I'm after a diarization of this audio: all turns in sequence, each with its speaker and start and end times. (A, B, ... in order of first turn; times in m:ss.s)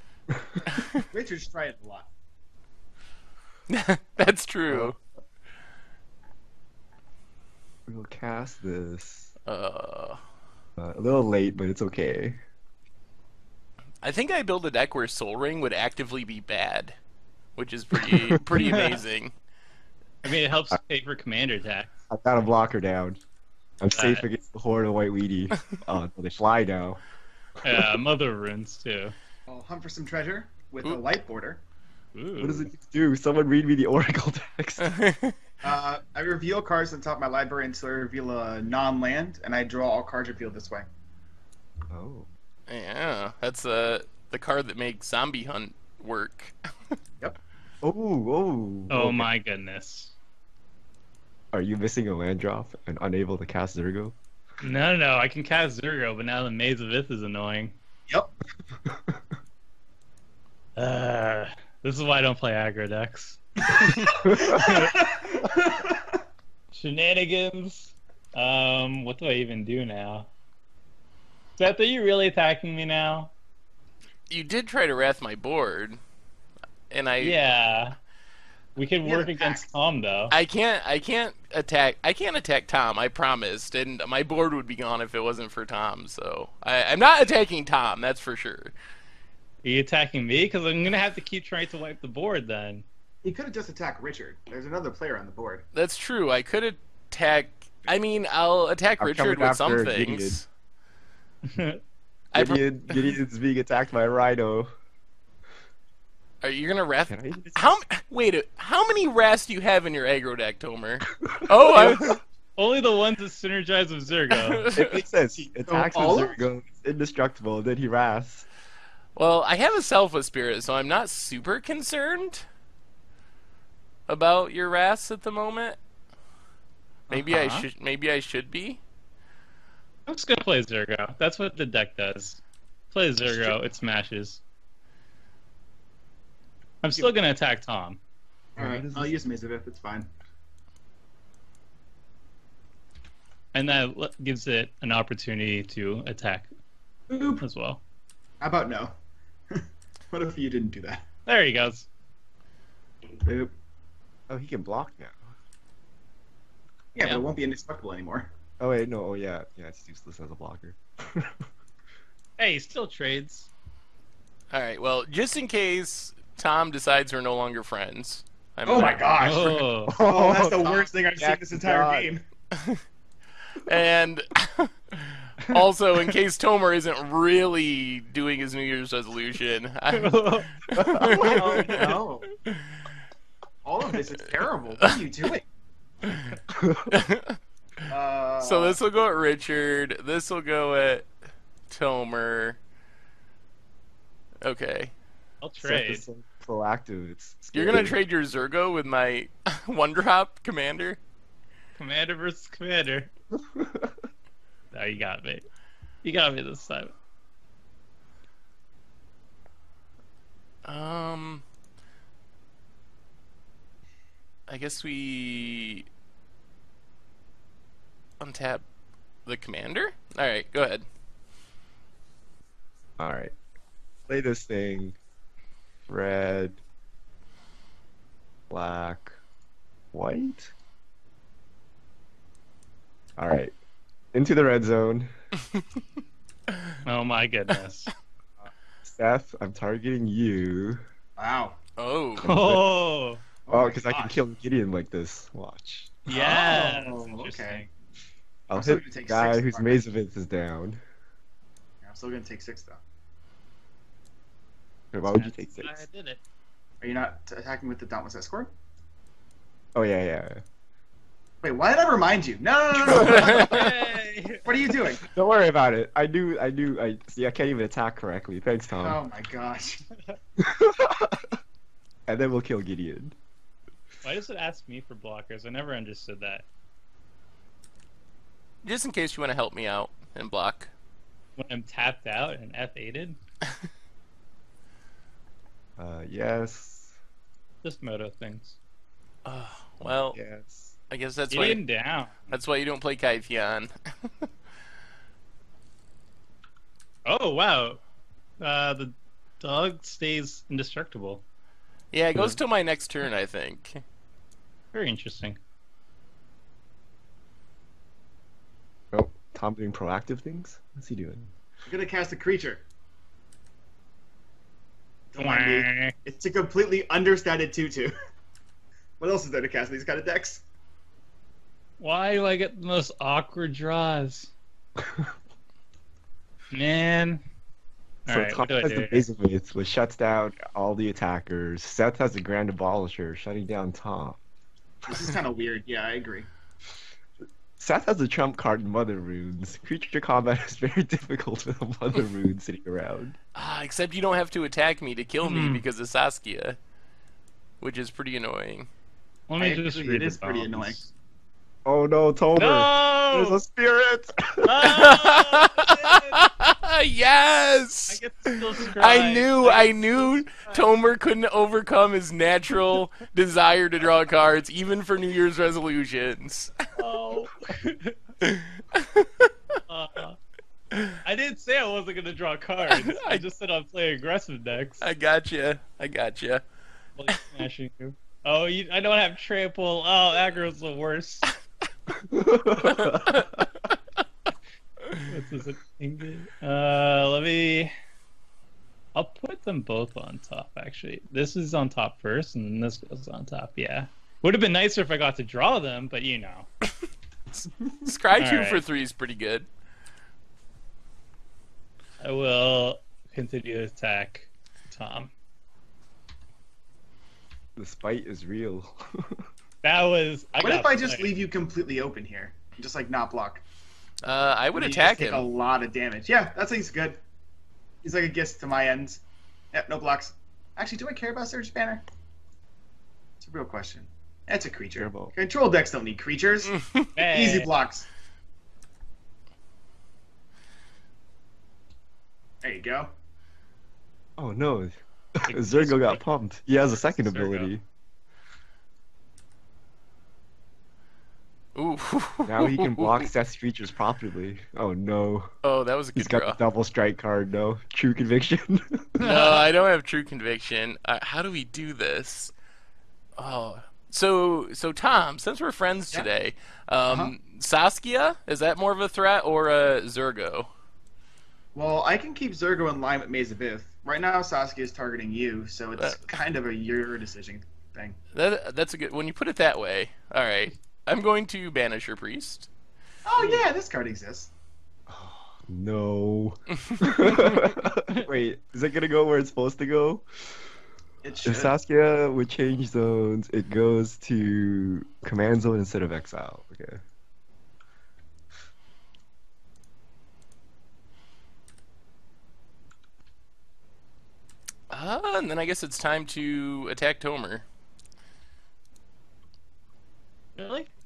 0:00.3-0:00.6 A
0:00.7-0:01.0 B
0:01.1-0:02.1 C
0:03.7-0:05.0 B
0:04.7-0:05.0 A
0:07.9-0:09.3 A
0:09.5-0:10.2 B
0:10.8-0:12.4 A
0:14.0-0:17.0 B
0:17.6-0:19.3 B
0:18.0-0:18.4 A
0:18.5-0:19.0 D
0:20.2-0:21.9 D
0:22.1-0:23.2 A
0:23.8-0:27.0 A
0:23.9-0:24.2 D
0:27.6-0:29.2 D
0:29.5-0:31.6 C
0:32.1-0:32.7 D
0:32.4-0:34.9 A
0:34.8-0:35.4 B
0:35.6-0:40.8 C
0:41.9-0:42.3 A
0:42.7-0:46.6 B
0:47.8-0:49.3 A
0:48.9-0:50.1 D
0:51.5-0:54.2 A
0:54.6-0:57.8 D
0:58.9-0:59.2 A
1:00.8-1:05.1 D
1:04.0-1:06.0 C
1:04.3-1:04.6 A
1:06.7-1:10.3 D
1:11.6-1:13.3 D
1:14.3-1:16.0 B
1:16.9-1:17.4 B
1:17.2-1:18.0 D
1:18.8-1:20.4 D
1:19.0-1:19.7 C
1:20.3-1:28.7 B
1:29.6-1:32.8 D
1:33.2-1:35.6 C
1:35.7-1:40.4 B
1:39.0-1:40.4 A
1:41.4-1:41.8 D
1:42.3-1:43.1 B
1:42.3-1:44.7 A
1:46.4-1:52.2 B
1:47.1-1:47.8 A
1:51.3-1:52.2 A
1:52.6-1:54.7 D
1:54.4-1:55.0 B
1:54.8-1:58.5 A
1:55.7-1:56.4 C
1:59.2-2:02.5 B
2:04.1-2:05.8 B
2:07.1-2:07.7 D
2:07.1-2:08.8 B
2:10.1-2:14.4 D
2:16.8-2:18.0 D
2:18.6-2:20.1 C
2:18.6-2:19.2 A
2:23.5-2:26.5 D
2:27.1-2:27.4 C
2:27.4-2:27.8 D
2:28.4-2:28.9 C
2:29.5-2:31.0 C
2:31.3-2:31.9 D
2:33.2-2:33.5 C
2:34.3-2:35.2 A
2:37.0-2:38.3 C
2:38.6-2:41.5 A
2:42.4-2:43.5 D
2:44.5-2:49.5 B
2:48.7-2:52.2 C
2:49.2-2:50.0 D
2:49.9-2:52.1 A
2:52.5-2:52.8 B
2:53.6-3:02.0 B
2:59.9-3:00.5 D
3:00.8-3:01.3 A
3:01.0-3:02.3 C
3:01.5-3:01.9 D
3:03.6-3:05.5 C
3:06.1-3:06.4 B
3:06.5-3:07.0 A
3:06.9-3:07.4 B
3:07.9-3:08.8 C
3:08.4-3:11.1 B
3:11.7-3:12.6 B
3:14.4-3:14.9 B
3:15.4-3:16.0 D
3:15.6-3:18.0 A
3:17.5-3:21.0 B
3:21.8-3:23.1 D
3:23.3-3:24.0 A
3:24.7-3:25.4 D
3:26.0-3:26.9 D
3:30.6-3:31.4 B
3:34.5-3:35.9 B
3:38.2-3:38.6 B
3:39.3-3:40.8 B
3:43.0-3:43.3 A
3:44.1-3:45.0 A
3:45.9-3:46.6 A
3:48.5-3:49.2 A
3:49.9-3:50.5 A
3:53.2-3:53.5 A
3:54.1-3:55.1 A
3:56.8-3:57.9 D
3:58.8-4:00.8 A
4:01.2-4:01.6 C
4:01.8-4:02.3 B
4:02.2-4:02.7 A
4:02.2-4:03.2 D
4:03.5-4:04.2 C
4:03.5-4:06.1 A
4:06.1-4:07.7 D
4:06.1-4:07.6 C
4:08.5-4:10.8 A
4:08.6-4:09.8 C
4:11.8-4:12.8 C
4:14.9-4:15.8 A
4:15.0-4:16.2 D
4:16.8-4:18.5 C
4:19.8-4:20.4 A
4:21.4-4:23.6 C
4:22.9-4:23.7 B
4:23.0-4:24.4 D
4:23.0-4:23.3 A
4:24.4-4:25.0 C
4:25.0-4:29.0 A
4:28.8-4:29.8 C
4:30.4-4:31.3 A
4:32.1-4:33.2 A
4:34.0-4:36.5 D
4:38.6-4:40.7 B
4:41.4-4:43.2 D
4:45.8-4:47.0 A
4:47.6-4:48.6 D
4:49.2-4:50.2 B
4:49.8-4:50.8 A
4:50.9-4:51.6 B
4:51.3-4:52.3 D
4:52.3-4:54.3 B
4:57.1-4:57.8 D
4:58.4-5:01.2 D
5:01.9-5:03.8 B
5:02.2-5:02.4 A
5:04.7-5:05.4 D
5:08.9-5:11.3 A
5:11.7-5:12.6 C
5:15.1-5:17.9 C
5:15.2-5:15.9 D
5:19.0-5:20.4 C
5:21.8-5:24.3 D
5:26.5-5:27.2 D
5:28.1-5:29.0 D
5:28.1-5:34.2 A
5:34.9-5:36.3 C
5:37.6-5:43.2 A
5:43.4-5:46.6 B
5:45.2-5:45.6 D
5:47.6-5:48.7 B
5:49.3-5:50.9 D
5:49.4-5:50.8 C
5:51.6-5:54.7 A
5:52.4-5:53.4 D
5:54.4-5:56.2 D
5:54.6-6:06.6 B
5:57.9-6:00.6 D
6:06.8-6:08.0 D
6:08.2-6:09.3 B
6:09.7-6:10.2 D
6:10.7-6:11.0 B
6:11.0-6:14.9 D
6:12.7-6:13.2 B
6:14.8-6:16.4 B
6:17.0-6:21.3 D
6:22.0-6:23.3 A
6:22.6-6:23.4 B
6:25.1-6:27.7 D
6:29.0-6:36.5 D
6:37.8-6:39.5 B
6:38.2-6:38.6 D
6:42.0-6:45.1 D
6:47.6-6:49.2 A
6:49.6-6:51.1 D
6:50.4-6:53.4 C
6:54.0-6:55.3 B
6:54.5-6:57.0 C
6:57.8-7:01.8 C
7:03.2-7:07.9 C
7:04.8-7:05.1 A
7:07.0-7:07.5 D
7:12.4-7:12.9 C
7:14.2-7:17.6 A
7:15.3-7:16.0 D
7:16.9-7:17.5 D
7:21.6-7:23.1 B
7:22.3-7:25.3 A
7:25.4-7:26.4 B
7:26.0-7:28.9 A
7:29.0-7:29.4 D
7:29.0-7:32.3 B
7:33.2-7:40.5 B
7:41.5-7:48.0 C
7:48.1-7:52.5 B
7:53.1-7:54.3 C
7:54.9-8:00.1 A
8:01.0-8:01.6 C
8:01.2-8:06.8 A
8:14.7-8:17.4 B
8:20.4-8:20.7 D